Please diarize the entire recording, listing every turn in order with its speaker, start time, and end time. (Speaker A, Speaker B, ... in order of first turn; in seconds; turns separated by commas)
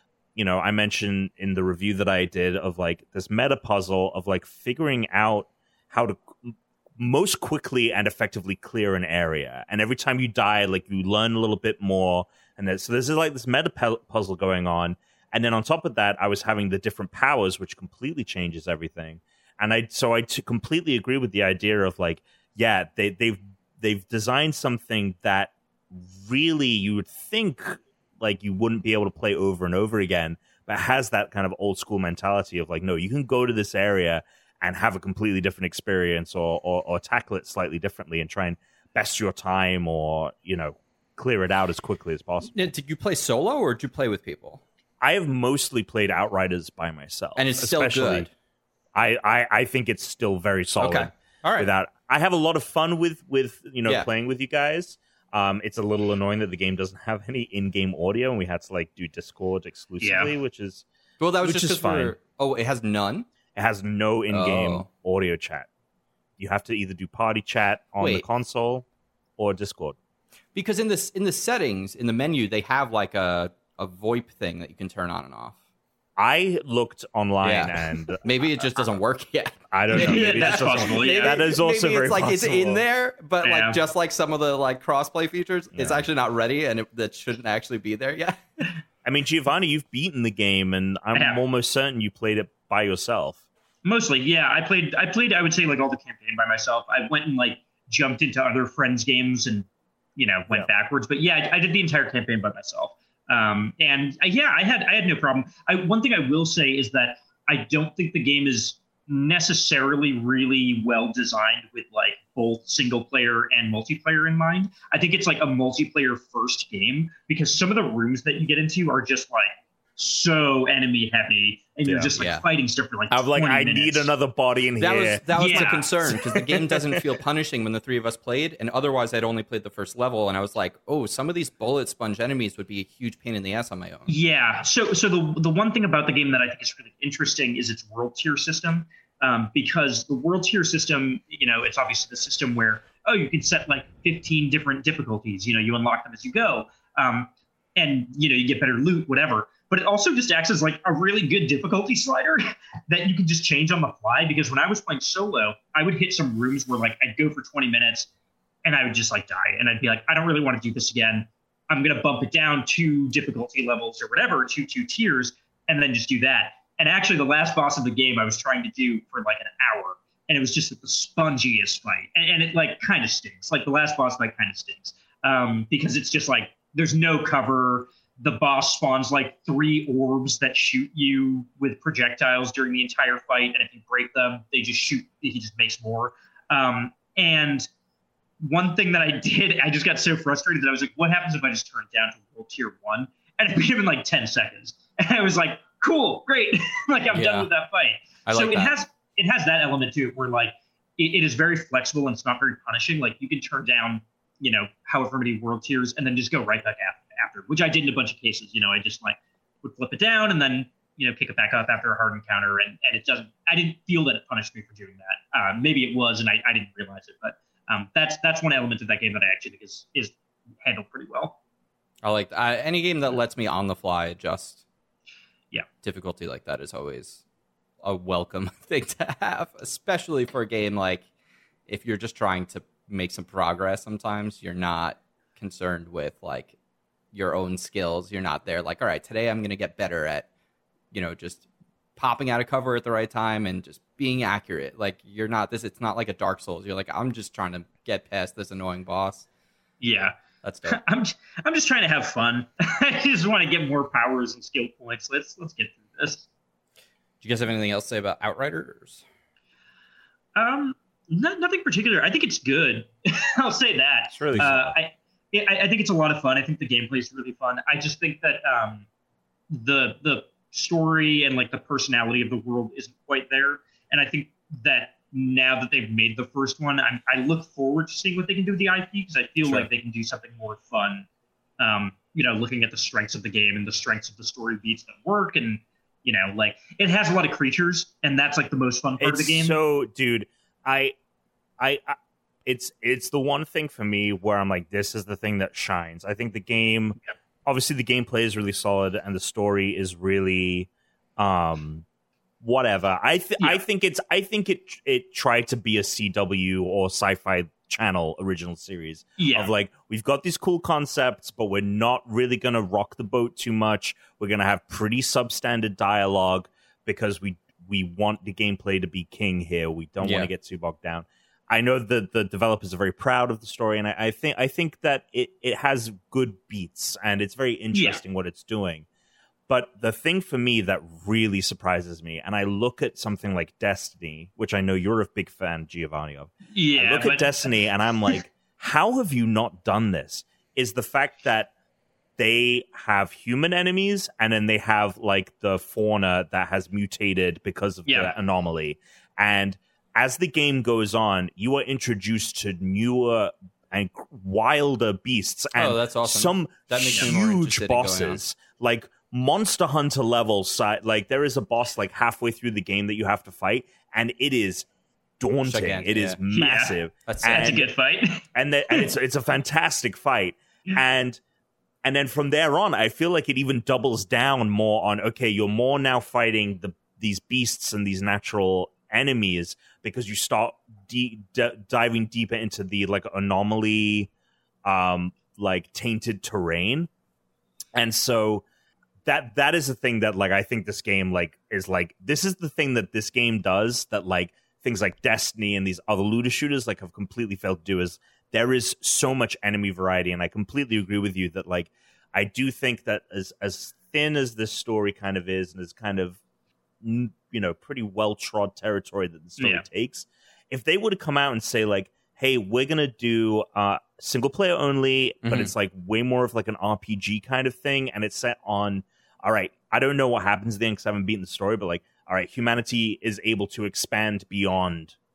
Speaker A: 0.3-42.6, Speaker B: 42.5-44.6, Speaker A: 45.0-48.3, Speaker B: 47.4-48.3, Speaker A: 48.9-60.8, Speaker B: 50.8-51.7, Speaker C: 60.0-60.3, Speaker B: 61.2-63.3, Speaker A: 61.4-62.1, Speaker A: 63.5-65.7, Speaker B: 64.3-64.9, Speaker A: 66.4-68.8, Speaker B: 68.0-68.2, Speaker A: 69.4-70.0, Speaker B: 70.5-75.5, Speaker A: 76.2-78.3, Speaker B: 77.4-88.4, Speaker A: 79.7-82.8, Speaker C: 79.9-81.4, Speaker C: 83.4-83.8, Speaker A: 85.7-86.0, Speaker A: 89.0-93.4, Speaker C: 91.1-91.4, Speaker C: 93.8-124.1, Speaker A: 121.8-122.2, Speaker B: 122.2-122.4, Speaker A: 123.1-126.8, Speaker B: 124.8-134.1, Speaker C: 125.3-125.9, Speaker C: 134.1-158.1, Speaker C: 158.6-187.7, Speaker C: 188.4-221.3, Speaker B: 197.1-197.5, Speaker B: 198.2-198.7, Speaker B: 222.0-224.6, Speaker B: 225.8-227.2, Speaker B: 227.8-231.1, Speaker B: 231.7-236.5, Speaker B: 237.1-240.2, Speaker B: 240.9-241.4, Speaker B: 242.0-249.3, Speaker C: 249.8-250.1, Speaker B: 250.4-250.8, Speaker C: 250.7-256.2, Speaker B: 257.2-259.0, Speaker C: 260.4-268.8, Speaker A: 264.2-264.7, Speaker C: 269.5-281.1, Speaker A: 279.4-279.7, Speaker C: 281.6-289.6, Speaker A: 289.0-290.9, Speaker A: 291.6-301.8, Speaker A: 302.4-328.9, Speaker C: 309.2-309.5, Speaker B: 320.0-320.3, Speaker C: 327.7-328.0, Speaker A: 329.5-341.5, Speaker C: 336.5-337.4, Speaker A: 342.2-364.6, Speaker C: 347.9-348.1, Speaker B: 355.5-358.2, Speaker A: 365.2-367.7, Speaker B: 365.4-366.2, Speaker C: 366.3-368.9, Speaker B: 367.1-367.5, Speaker A: 368.3-371.2, Speaker A: 371.8-384.1, Speaker A: 384.6-386.9, Speaker A: 387.7-388.4, Speaker A: 389.1-406.2, Speaker A: 406.8-424.9, Speaker C: 409.4-409.6, Speaker B: 415.2-415.5